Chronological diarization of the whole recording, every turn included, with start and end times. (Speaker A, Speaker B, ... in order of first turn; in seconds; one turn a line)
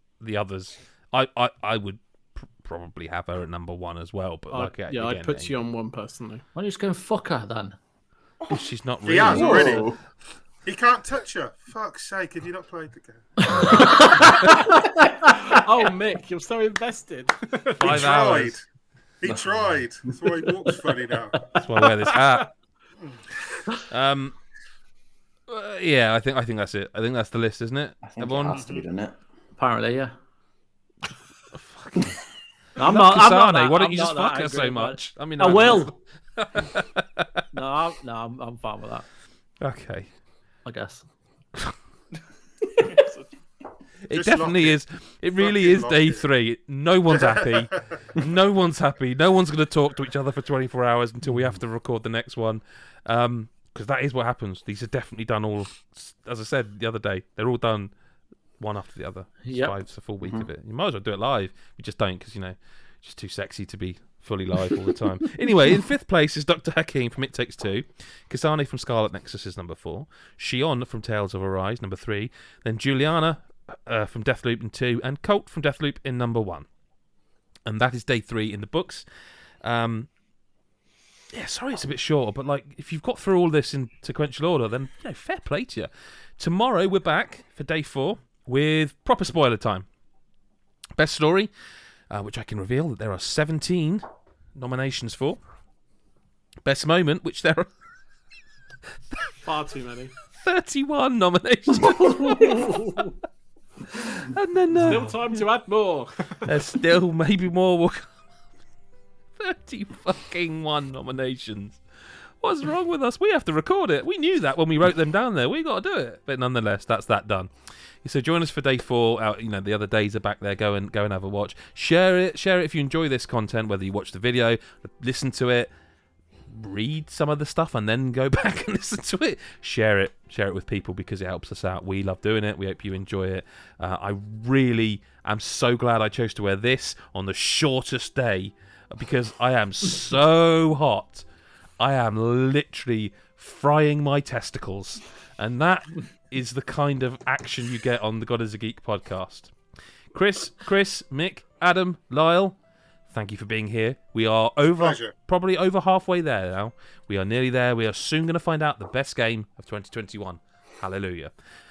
Speaker A: 0.2-5.5
Speaker B: 4.5-6.4
Speaker C: 6.5-7.8
Speaker A: 8.5-9.9
Speaker D: 9.1-9.9
Speaker E: 9.2-10.0
Speaker D: 10.6-14.0
Speaker C: 13.5-15.6
Speaker B: 15.4-18.1
Speaker D: 17.8-18.6
Speaker A: 17.8-18.6
Speaker D: 19.2-21.5
Speaker E: 19.3-19.5
Speaker B: 21.5-22.4
Speaker A: 21.6-22.5
Speaker A: 23.9-24.3
Speaker A: 25.5-28.6
Speaker E: 28.0-29.2
Speaker D: 28.5-28.8
Speaker C: 29.6-30.1
Speaker A: 31.5-32.1
Speaker C: 32.8-36.0
Speaker A: 32.8-37.2
Speaker C: 37.5-39.0
Speaker A: 39.6-40.1
Speaker C: 40.6-41.0
Speaker A: 44.1-57.9
Speaker D: 44.1-44.8
Speaker D: 45.4-46.3
Speaker D: 47.1-48.0
Speaker A: 58.6-76.7
Speaker C: 59.4-59.7
Speaker E: 60.2-60.5
Speaker A: 77.7-79.0
Speaker A: 79.6-80.1
Speaker A: 81.3-89.9
Speaker A: 91.0-91.5
Speaker A: 92.1-95.4
Speaker A: 96.6-97.7
Speaker B: 99.4-100.1
Speaker A: 100.4-103.1
Speaker B: 102.4-102.8
Speaker A: 103.9-105.4
Speaker B: 104.8-106.6
Speaker A: 106.5-108.1
Speaker A: 109.4-111.8
Speaker A: 112.4-117.5
Speaker A: 118.0-125.7
Speaker A: 126.5-141.2
Speaker A: 141.8-149.5
Speaker A: 150.1-152.6
Speaker A: 153.1-161.3
Speaker D: 154.8-155.1